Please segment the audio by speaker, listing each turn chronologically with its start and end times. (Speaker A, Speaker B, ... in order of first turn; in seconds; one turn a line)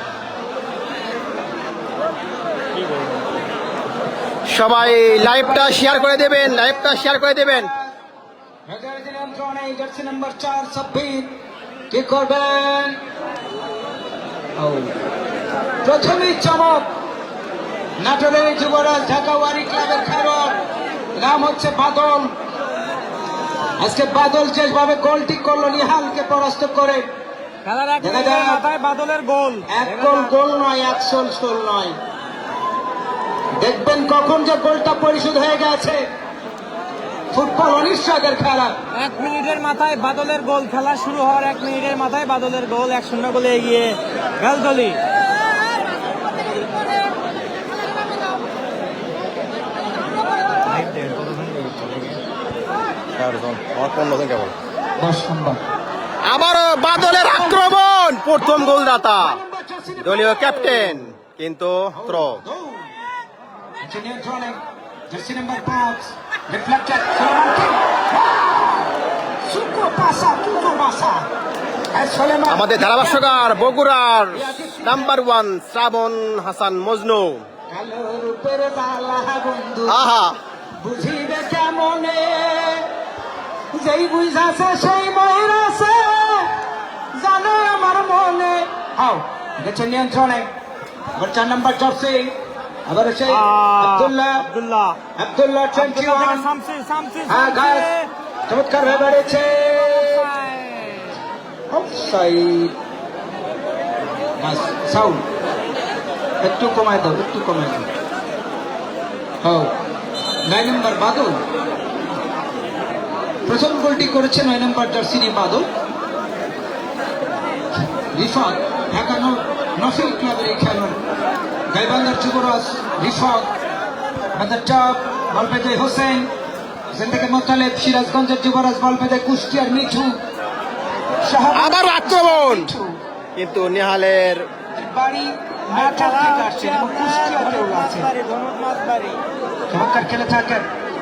Speaker A: 2.7-3.2
Speaker B: 4.5-7.7
Speaker C: 4.9-6.7
Speaker C: 8.7-11.4
Speaker C: 11.9-13.0
Speaker C: 14.6-14.9
Speaker C: 15.8-16.9
Speaker C: 18.0-20.6
Speaker C: 21.1-22.3
Speaker C: 23.8-27.1
Speaker A: 27.6-30.3
Speaker C: 28.0-28.6
Speaker C: 29.7-32.0
Speaker C: 33.6-36.0
Speaker C: 37.3-38.8
Speaker A: 38.9-45.0
Speaker A: 50.7-52.2
Speaker B: 53.2-54.5
Speaker C: 55.0-55.6
Speaker B: 56.2-59.4
Speaker C: 56.9-57.8
Speaker C: 58.4-61.0
Speaker B: 60.0-62.4
Speaker C: 61.9-62.9
Speaker C: 63.8-68.9
Speaker C: 69.4-71.3
Speaker C: 71.9-73.7
Speaker B: 72.5-77.5
Speaker C: 74.3-75.2
Speaker C: 77.7-80.0
Speaker B: 79.9-80.4
Speaker C: 80.8-82.9
Speaker C: 83.7-86.5
Speaker C: 87.1-90.5
Speaker C: 91.2-92.3
Speaker C: 92.9-94.5
Speaker A: 93.3-95.0
Speaker C: 95.2-96.5
Speaker A: 95.7-98.1
Speaker C: 97.3-97.9
Speaker C: 98.5-100.3
Speaker A: 99.9-101.1
Speaker C: 101.7-102.7
Speaker C: 104.4-105.2
Speaker C: 106.4-107.9
Speaker C: 109.4-109.7
Speaker C: 110.4-111.4
Speaker C: 113.5-115.7
Speaker C: 118.1-121.0
Speaker C: 121.7-123.5
Speaker C: 124.3-126.3
Speaker C: 126.9-130.2
Speaker C: 131.2-133.0
Speaker B: 131.5-132.7
Speaker B: 133.3-134.5
Speaker C: 134.7-138.1
Speaker A: 135.7-139.2
Speaker C: 139.7-140.7